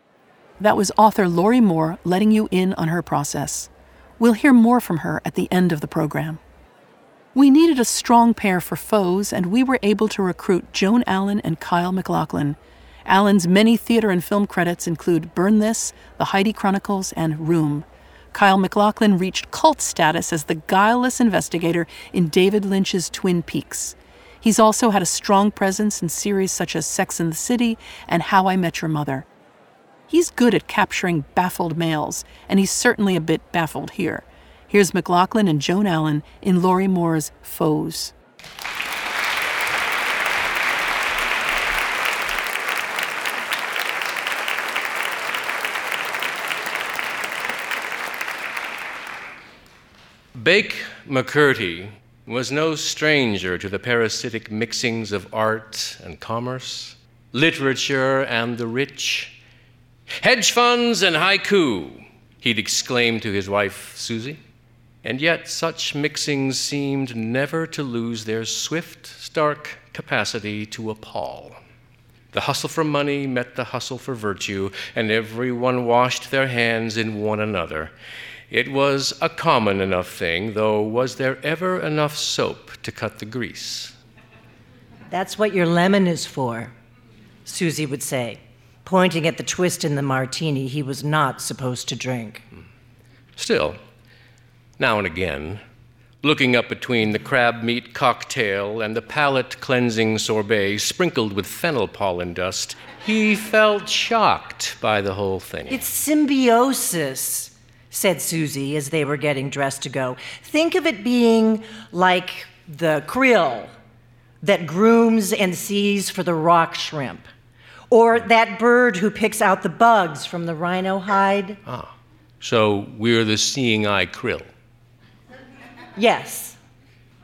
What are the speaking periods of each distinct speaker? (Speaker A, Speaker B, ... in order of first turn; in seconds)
Speaker A: 0.6-6.4, 7.3-29.3, 30.1-38.1
Speaker B: 50.3-59.4, 60.2-64.4, 65.0-71.6, 72.3-77.9, 78.5-84.0, 93.4-93.8, 94.8-95.6, 96.2-105.8, 121.7-124.5
Speaker C: 85.1-86.7, 87.5-92.4, 105.7-113.7, 114.4-117.2, 117.9-121.6, 126.0-126.6